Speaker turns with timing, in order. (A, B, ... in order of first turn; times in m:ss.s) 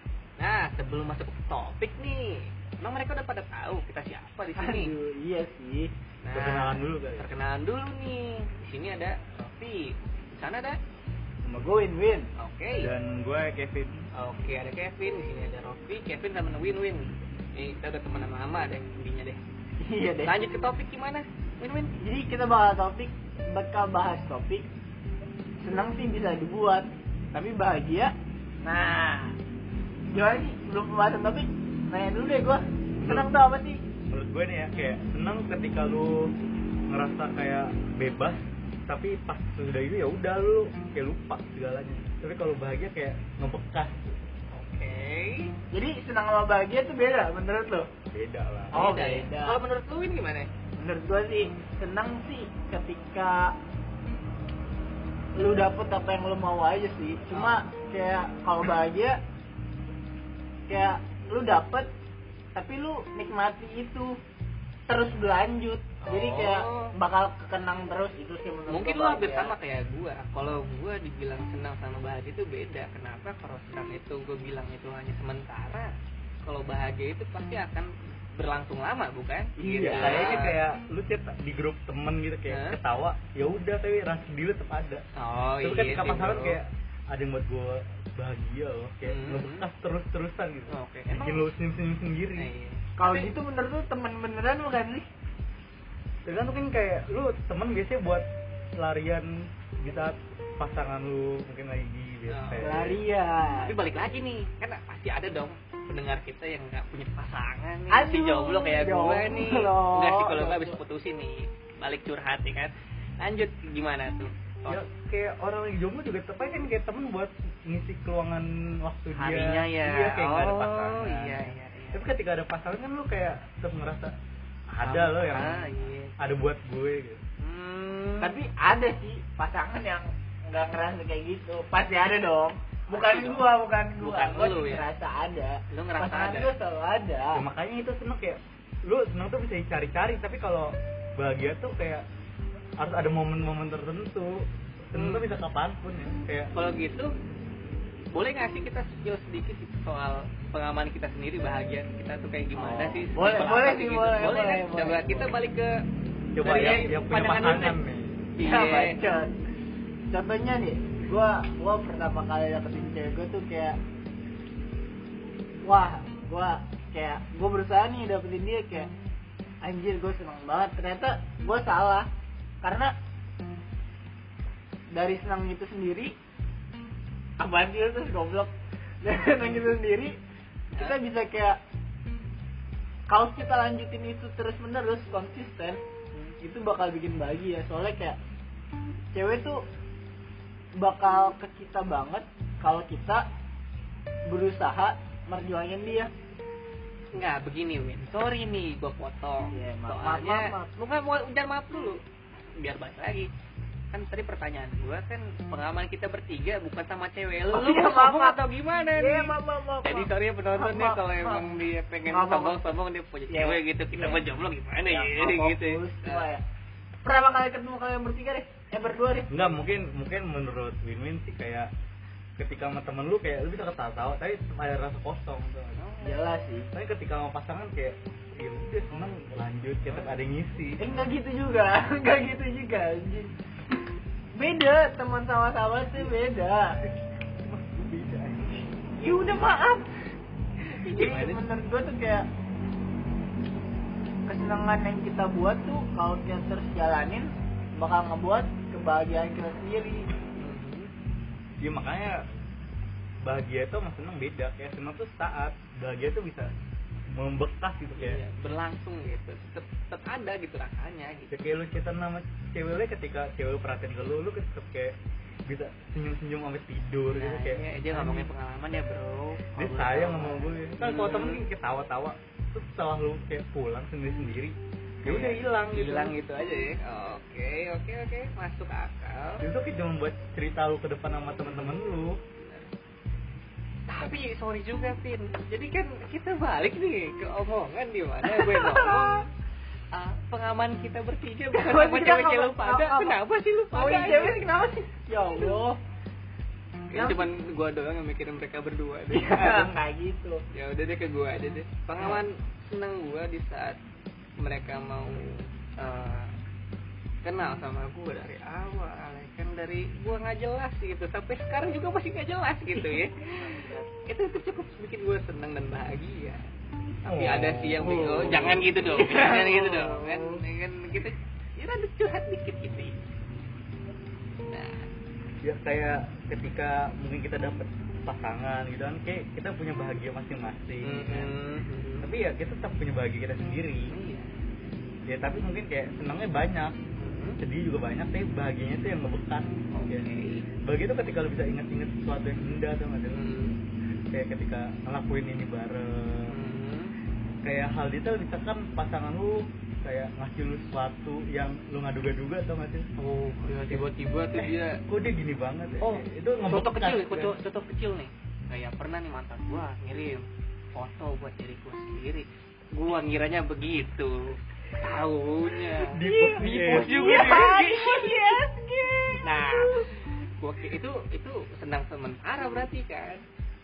0:00.4-0:05.0 A
0:04.6-0:05.9 B
0:06.2-0:10.8 A
0:06.3-0:07.3 C
0:11.4-0:12.3 B
0:12.4-0:12.9 A
0:12.8-0:14.1 C
0:14.2-0:19.4 A
0:19.8-0:20.4 B
0:20.2-0:22.0 A
0:22.0-0:24.7 B
0:25.6-0:29.4 B
0:30.1-0:33.8 B
0:33.0-0:33.3 C
0:34.1-0:36.3 C
0:36.9-0:44.0 C
0:44.5-0:45.5 A
0:45.7-0:47.9 B
0:48.1-0:48.8 C
0:48.7-0:50.5 A
0:48.8-0:49.6 B
0:50.8-0:53.5 B
0:55.4-0:59.2 B
0:57.3-0:57.6 A
1:00.7-1:01.9 B
1:02.6-1:04.1 B
1:04.9-1:09.6 B
1:06.0-1:06.9 A
1:08.7-1:15.9 A
1:16.4-1:20.6 A
1:19.6-1:20.4 B
1:19.8-1:25.0 C
1:22.5-1:22.8 A
1:25.2-1:26.6 A
1:25.6-1:32.5 C
1:29.0-1:29.7 A
1:30.7-1:31.5 A
1:32.4-1:33.3 A
1:33.0-1:35.1 B
1:36.2-1:43.0 C
1:42.3-1:42.9 A
1:42.6-1:43.7 B
1:43.6-1:54.8 A
1:47.9-1:50.8 B
1:54.7-2:04.2 C
1:59.2-2:02.1 A
2:04.7-2:07.2 C
2:04.8-2:06.2 A
2:07.4-2:08.4 A
2:08.2-2:17.4 B
2:12.9-2:14.9 A
2:15.7-2:16.5 A
2:17.3-2:22.0 C
2:22.8-2:26.5 C
2:24.9-2:25.2 A
2:26.5-2:27.1 A
2:28.1-2:35.7 A
2:32.6-2:35.3 B
2:36.4-2:38.3 C
2:36.4-2:37.8 A
2:38.4-2:39.0 A
2:38.4-2:39.4 B
2:40.1-2:43.8 B
2:45.6-2:48.9 B
2:49.6-2:52.1 B
2:52.6-2:52.9 B
2:54.9-2:56.1 B
2:57.4-2:58.5 B
2:59.0-3:00.2 B
3:00.8-3:01.6 B
3:03.1-3:05.8 B
3:06.4-3:08.2 B
3:09.1-3:09.6 B
3:10.8-3:13.2 B
3:14.3-3:16.1 B
3:17.1-3:22.0 A
3:19.5-3:20.7 B
3:22.6-3:23.3 A
3:23.9-3:36.3 A
3:27.5-3:28.4 B
3:29.0-3:32.6 B
3:33.3-3:34.2 B
3:34.9-3:36.4 B
3:37.0-3:39.6 B
3:39.3-3:41.7 C
3:42.4-3:45.8 C
3:45.8-3:46.3 A
3:46.0-3:46.7 B
3:46.7-3:50.9 C
3:49.9-3:50.2 A
3:50.8-3:53.3 B
3:54.4-3:56.8 B
3:57.4-3:58.6 C
3:59.0-4:00.0 B
4:00.7-4:01.4 A
4:00.8-4:02.2 B
4:04.3-4:10.1 B
4:10.4-4:10.9 A
4:11.6-4:12.2 C
4:13.2-4:16.5 C
4:17.1-4:18.2 C
4:18.0-4:21.4 A
4:21.3-4:25.0 C
4:25.5-4:28.3 C
4:27.1-4:31.4 A
4:29.6-4:36.2 C
4:35.0-4:39.4 A
4:39.4-4:42.2 C
4:41.4-4:41.8 A
4:42.4-4:42.7 A
4:43.9-4:49.3 A
4:48.3-4:49.2 B
4:49.9-4:54.5 A
4:51.5-4:53.2 B
4:53.7-4:55.8 B
4:55.3-4:55.6 A
4:56.9-4:59.8 A
4:56.9-4:57.3 B
4:59.1-5:00.4 B
5:00.5-5:03.8 A
5:04.4-5:06.3 A
5:07.2-5:16.4 A
5:12.7-5:13.9 B
5:17.0-5:18.7 C
5:17.0-5:22.9 A
5:17.9-5:20.4 B
5:24.5-5:24.9 A
5:25.4-5:31.3 C
5:30.8-5:32.1 A
5:32.0-5:33.9 C
5:33.8-5:34.4 A
5:35.1-5:36.8 C
5:37.0-5:37.4 A
5:37.4-5:40.1 C
5:39.7-5:40.5 A
5:40.6-5:43.2 C
5:43.1-5:43.6 A
5:44.1-5:46.4 C
5:46.3-5:46.9 A
5:47.4-5:52.9 C
5:53.0-5:54.8 A
5:54.4-5:57.4 C
5:55.8-6:08.5 A
6:05.8-6:07.4 C
6:06.0-6:09.9 B
6:09.2-6:13.2 A